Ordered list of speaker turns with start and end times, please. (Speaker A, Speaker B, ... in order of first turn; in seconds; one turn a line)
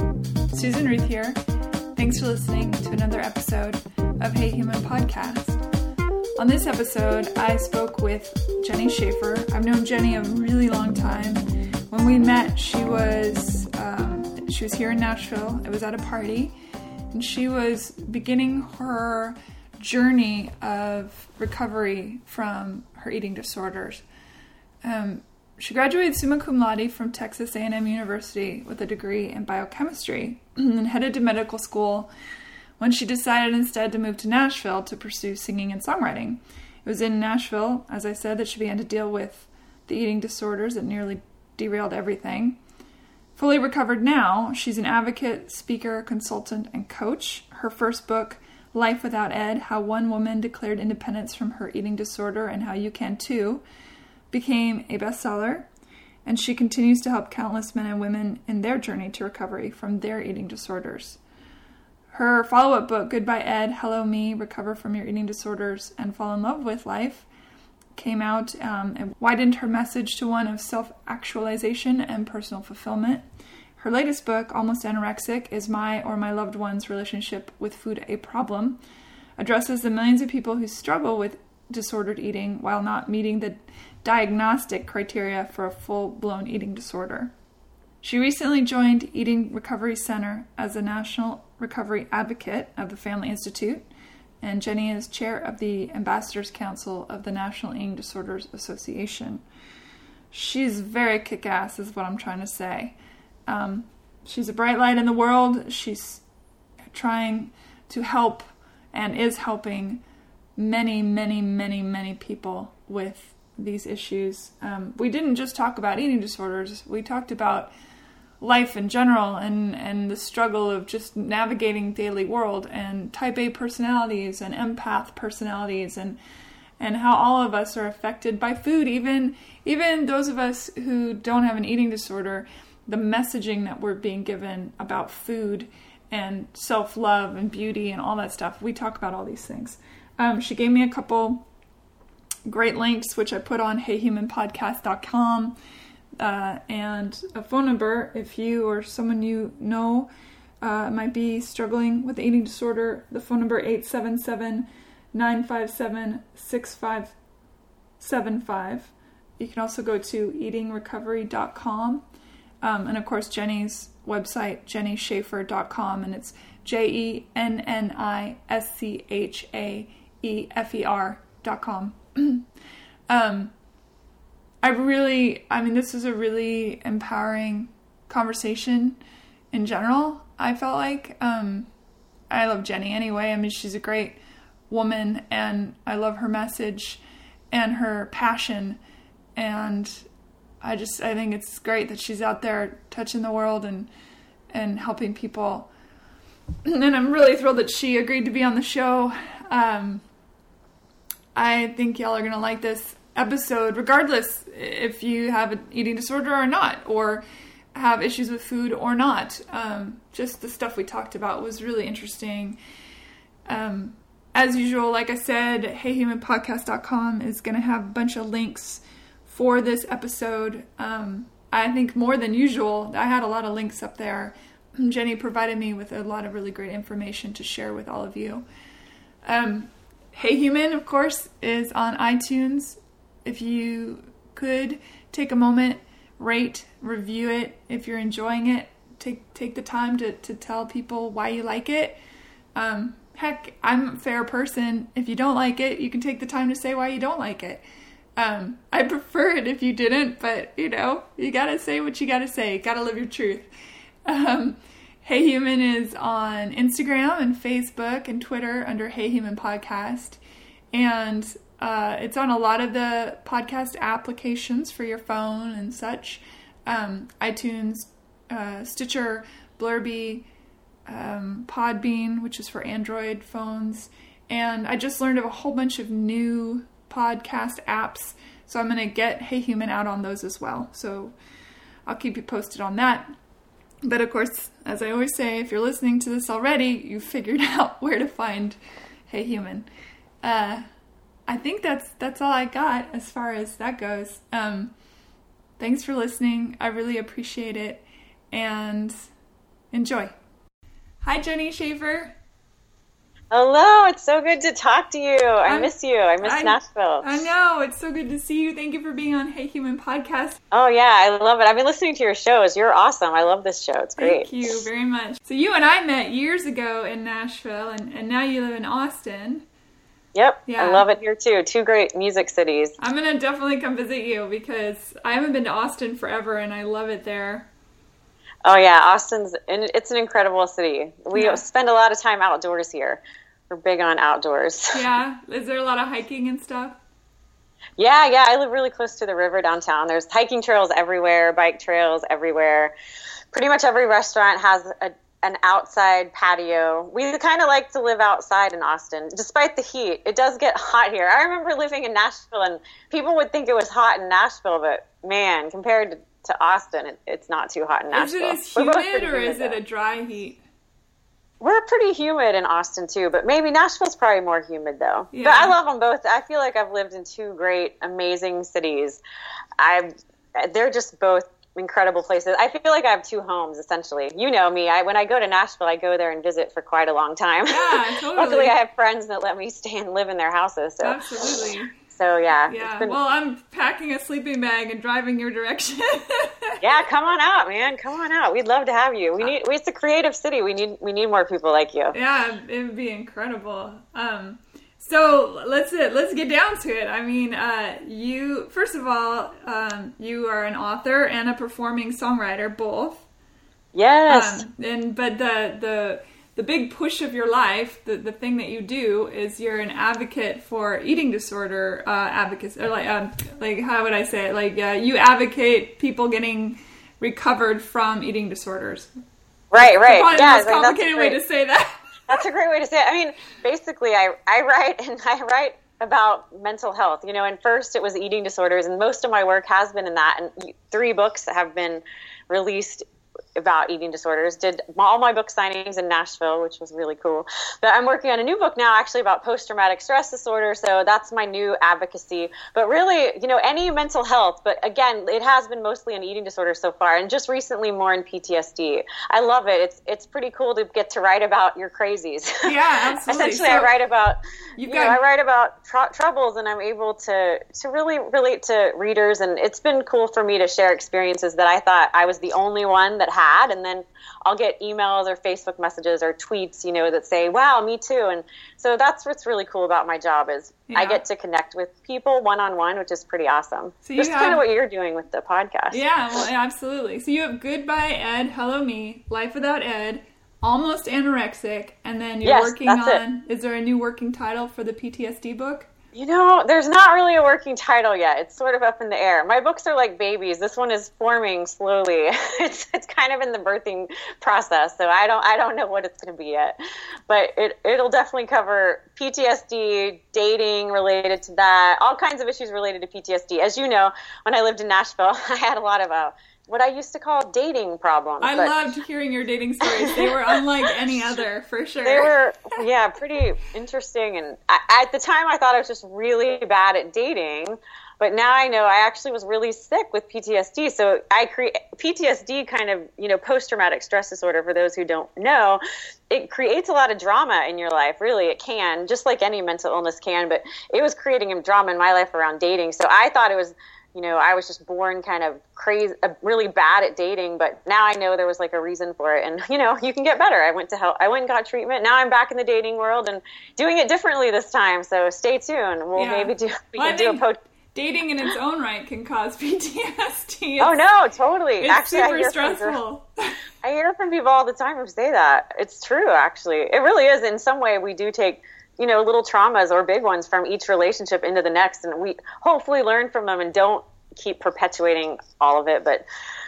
Speaker A: 0.5-1.4
Speaker A: 1.9-5.6
Speaker A: 6.4-16.5
Speaker A: 17.1-24.0
Speaker A: 24.8-32.1
Speaker A: 32.8-42.6
Speaker A: 43.4-53.6
Speaker A: 54.3-55.7
Speaker A: 56.2-61.2
Speaker A: 62.1-67.2
Speaker A: 68.0-73.2
Speaker A: 73.8-78.8
Speaker A: 79.4-87.3
Speaker A: 88.0-93.8
Speaker A: 94.4-99.4
Speaker A: 100.3-102.9
Speaker A: 103.5-106.2
Speaker A: 106.9-110.0
Speaker A: 110.6-117.7
Speaker A: 118.4-126.2
Speaker A: 126.8-141.4
Speaker A: 142.4-145.6
Speaker A: 146.2-150.1
Speaker A: 150.6-157.1
Speaker A: 158.0-162.0
Speaker A: 162.6-172.5
Speaker A: 173.1-173.5
Speaker A: 174.6-179.0
Speaker A: 179.5-181.7
Speaker A: 182.3-184.2
Speaker A: 184.7-187.0
Speaker A: 187.5-188.8
Speaker A: 189.3-190.0
Speaker A: 190.6-193.9
Speaker A: 194.5-195.7
Speaker A: 196.6-200.0
Speaker A: 201.3-212.6
Speaker A: 213.5-228.4
Speaker A: 229.2-242.0
Speaker A: 242.6-247.6
Speaker A: 248.2-253.5
Speaker A: 254.0-260.2
Speaker A: 260.7-270.2
Speaker A: 270.9-281.1
Speaker A: 281.9-283.1
Speaker A: 283.8-289.7
Speaker A: 290.2-290.6
Speaker A: 291.3-294.7
Speaker A: 295.6-298.9
Speaker A: 299.7-300.1
Speaker A: 301.0-302.1
Speaker B: 303.3-307.0
Speaker A: 305.4-310.4
Speaker B: 310.5-314.3
Speaker A: 314.0-319.4
Speaker B: 320.1-322.7
Speaker A: 320.5-320.9
Speaker A: 322.8-327.5
Speaker B: 328.4-334.8
Speaker A: 331.1-331.4
Speaker A: 334.7-336.8
Speaker B: 337.8-342.7
Speaker B: 343.3-359.6
Speaker A: 357.9-360.4
Speaker B: 361.4-369.0
Speaker A: 365.1-365.5
Speaker B: 369.6-381.0
Speaker A: 377.5-378.5
Speaker A: 380.8-381.8
Speaker B: 381.9-382.9
Speaker A: 382.5-386.6
Speaker B: 386.6-391.9
Speaker A: 391.9-403.0
Speaker B: 403.7-404.4
Speaker A: 404.1-418.9
Speaker B: 419.5-421.2
Speaker A: 419.6-421.9
Speaker B: 422.1-452.5
Speaker A: 452.4-453.7
Speaker B: 453.1-475.8
Speaker A: 454.6-455.0
Speaker A: 470.7-471.0
Speaker A: 473.8-474.4
Speaker A: 475.7-485.7
Speaker B: 482.2-483.0
Speaker B: 485.9-496.6
Speaker B: 497.1-508.5
Speaker A: 508.2-512.1
Speaker B: 509.6-510.3
Speaker B: 511.8-547.4
Speaker A: 545.9-550.8
Speaker B: 550.6-552.8
Speaker A: 551.6-553.4
Speaker B: 553.6-566.0